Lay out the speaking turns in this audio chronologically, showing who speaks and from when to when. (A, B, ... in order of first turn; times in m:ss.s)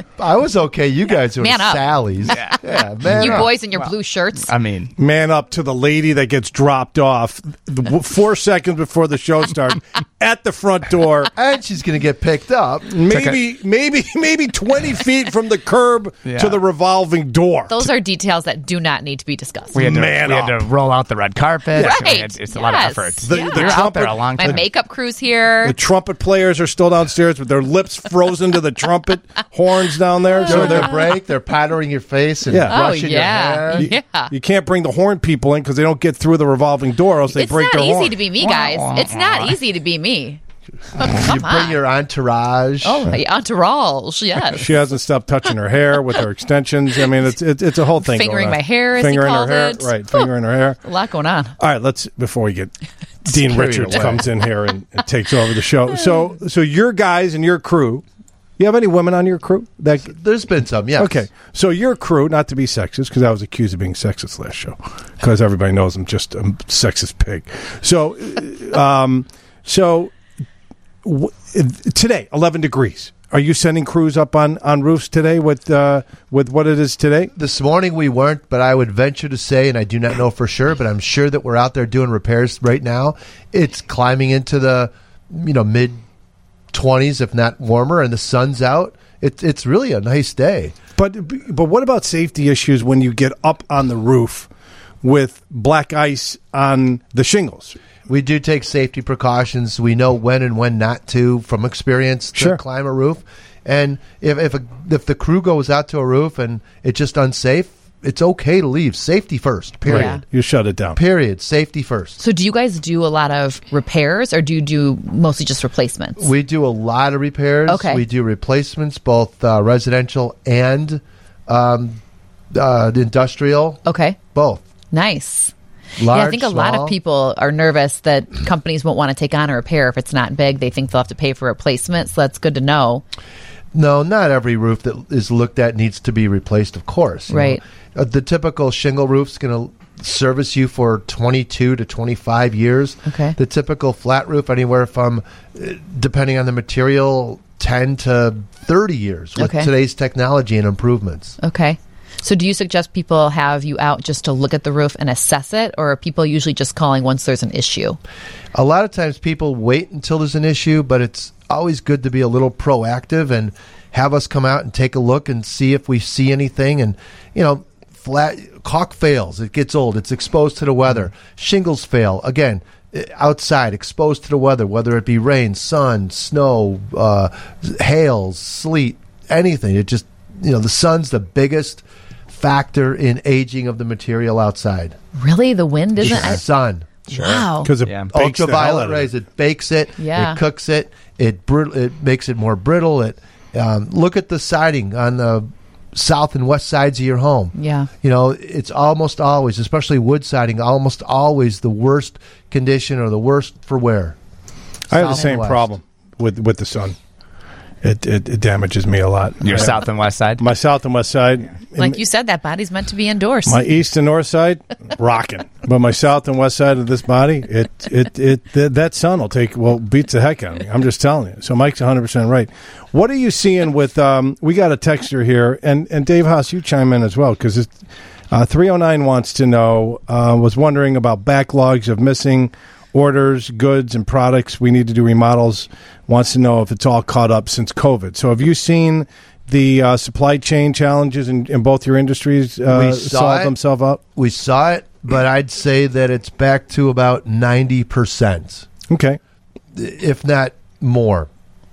0:00.2-0:03.5 A
0:01.4-0:04.5 B
0:02.3-0:02.6 C
0:03.8-0:04.9 C
0:05.0-0:11.3 D
0:11.4-0:12.9 A
0:12.9-0:17.9 D
0:13.1-0:13.4 C
0:16.2-0:16.6 C
0:17.7-0:19.8 B
0:19.7-0:24.6 C
0:19.8-0:20.6 D
0:21.8-0:23.8 B
0:21.8-0:22.0 D
0:23.2-0:24.6 D
0:24.4-0:25.8 B
0:25.6-0:30.9 D
0:30.4-0:31.0 B
0:30.5-0:33.9 A
0:32.5-0:32.8 D
0:32.7-0:34.3 B
0:33.8-0:38.1 D
0:37.3-0:40.4 B
0:38.4-0:39.6 C
0:41.0-0:41.8 B
0:41.1-0:43.1 A
0:42.8-0:44.6 B
0:44.5-0:50.8 D
0:48.0-0:50.3 B
0:50.8-0:51.5 B
0:51.6-0:52.7 D
0:53.2-0:58.0 D
0:53.3-0:54.3 A
0:58.6-1:00.1 D
1:00.1-1:01.2 A
1:01.0-1:10.1 D
1:11.0-1:17.3 D
1:17.3-1:26.0 A
1:26.7-1:30.8 A
1:31.0-1:34.5 D
1:35.0-1:37.8 D
1:38.1-1:50.2 A
1:42.4-1:42.6 D
1:49.9-1:50.2 B
1:49.9-1:51.0 D
1:51.0-1:52.2 A
1:52.2-1:56.3 B
1:56.2-2:02.0 A
1:57.7-1:58.0 B
2:02.5-2:04.6 A
2:03.8-2:04.2 B
2:04.9-2:13.0 B
2:06.0-2:07.0 A
2:13.7-2:31.4 A
2:17.3-2:17.6 B
2:23.1-2:23.4 B
2:29.4-2:29.7 B
2:31.4-2:38.0 B
2:38.5-3:05.0 A
3:05.2-3:06.4 B
3:06.0-3:06.9 A
3:07.1-3:07.7 B
3:07.1-3:08.1 C
3:07.6-3:09.1 D
3:08.1-3:24.2 A
3:10.0-3:10.4 B
3:17.6-3:17.9 B
3:24.9-3:27.0 D
3:24.9-3:25.7 A
3:27.8-3:29.8 D
3:29.4-3:30.4 C
3:30.4-3:32.0 D
3:31.8-3:33.6 B
3:33.5-3:47.7 D
3:48.3-4:04.0 D
4:02.7-4:03.5 A
4:04.2-4:08.7 A
4:08.9-4:09.2 D
4:09.7-4:11.3 A